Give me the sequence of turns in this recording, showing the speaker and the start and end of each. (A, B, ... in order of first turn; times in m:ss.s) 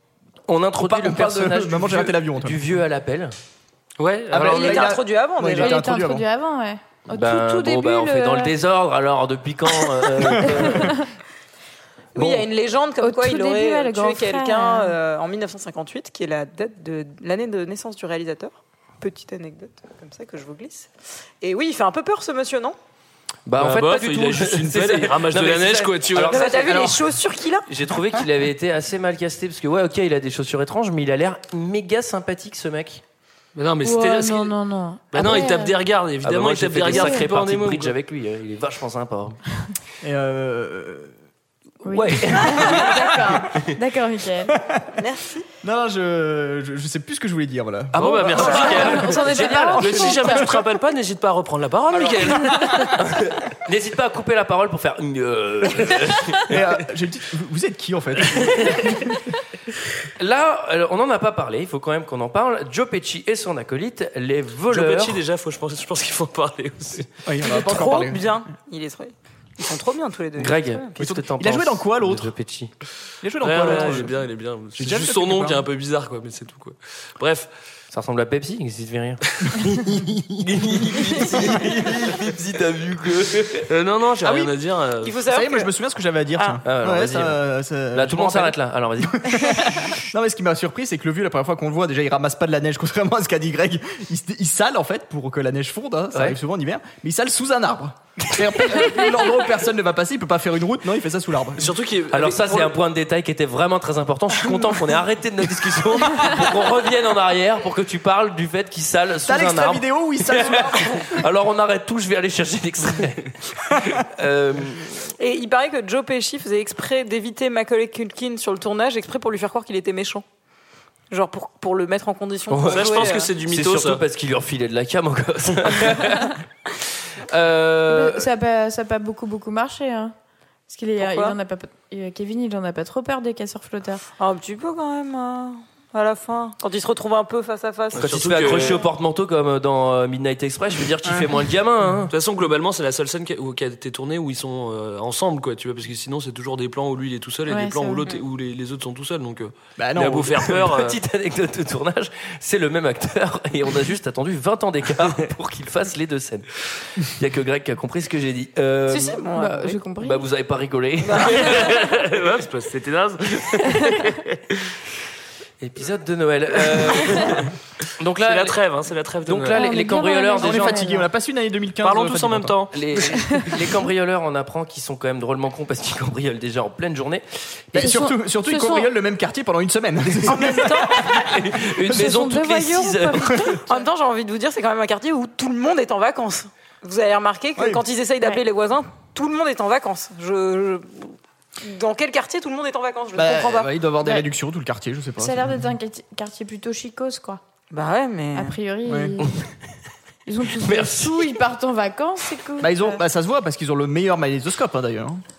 0:00.5-0:03.3 A
0:00.8-0:02.6 B
0:04.0-0:04.9 C
0:04.3-0:06.2 B
0:04.5-0:05.8 D
0:05.5-0:08.5 E
0:07.1-0:10.9 A
0:10.6-0:11.1 E
0:12.1-0:22.8 D
0:13.0-0:15.0 E
0:23.5-0:27.0 A
0:23.6-0:26.5 C
0:26.3-0:27.6 D
0:27.7-0:33.0 A
0:33.5-0:34.5 C
0:33.8-0:35.8 E
0:35.1-0:37.9 C
0:36.2-0:39.4 A
0:36.9-0:37.2 E
0:40.0-0:41.1 B
0:41.8-0:44.5 E
0:41.9-0:42.9 A
0:42.7-0:43.4 B
0:44.5-0:44.8 B
0:45.0-0:45.4 D
0:45.6-0:48.7 B
0:47.9-0:50.2 A
0:48.0-0:52.9 C
0:48.4-0:50.4 E
0:50.2-0:50.6 B
0:53.0-0:56.6 A
0:56.5-0:59.1 B
1:00.2-1:05.2 A
1:04.7-1:07.1 C
1:07.2-1:08.3 B
1:07.4-1:10.9 D
1:10.4-1:12.7 A
1:11.0-1:12.3 B
1:13.2-1:14.1 B
1:13.4-1:17.5 C
1:13.6-1:14.1 A
1:14.7-1:15.6 B
1:17.9-1:19.8 A
1:20.3-1:23.6 A
1:23.7-1:25.2 C
1:24.2-1:24.5 B
1:25.0-1:25.7 D
1:25.3-1:41.7 B
1:26.4-1:26.6 D
1:26.6-1:27.4 A
1:27.9-1:29.6 A
1:36.1-1:36.4 A
1:41.6-1:42.8 C
1:42.1-1:55.1 A
1:49.2-1:51.0 B
1:55.2-2:00.2 D
2:01.1-2:03.3 D
2:02.5-2:06.4 A
2:02.7-2:04.0 C
2:07.2-2:08.3 A
2:07.9-2:10.1 E
2:10.7-2:14.0 E
2:11.0-2:11.4 D
2:14.2-2:18.6 D
2:17.9-2:22.1 A
2:17.9-2:18.8 C
2:21.0-2:21.3 B
2:22.1-2:31.0 C
2:27.5-2:28.0 E
2:29.8-2:30.5 B
2:30.4-2:39.3 A
2:38.9-2:39.8 D
2:39.3-2:40.2 E
2:40.0-2:41.8 A
2:41.0-2:41.5 D
2:41.6-2:44.2 C
2:45.6-2:48.6 A
2:46.7-2:47.2 C
2:48.2-2:49.6 C
2:49.2-2:50.8 A
2:49.5-2:51.1 E
2:50.4-2:52.6 B
2:51.8-2:53.0 C
2:52.7-2:57.2 A
2:57.7-3:02.0 B
2:57.8-2:58.9 E
3:00.3-3:01.1 D
3:01.1-3:03.6 A
3:01.9-3:03.8 E
3:03.7-3:13.7 D
3:07.6-3:07.8 B
3:13.1-3:15.6 B
3:15.2-3:17.4 E
3:17.7-3:18.6 D
3:18.3-3:19.3 E
3:18.8-3:19.2 B
3:20.2-3:23.0 E
3:20.6-3:21.2 A
3:22.6-3:25.2 B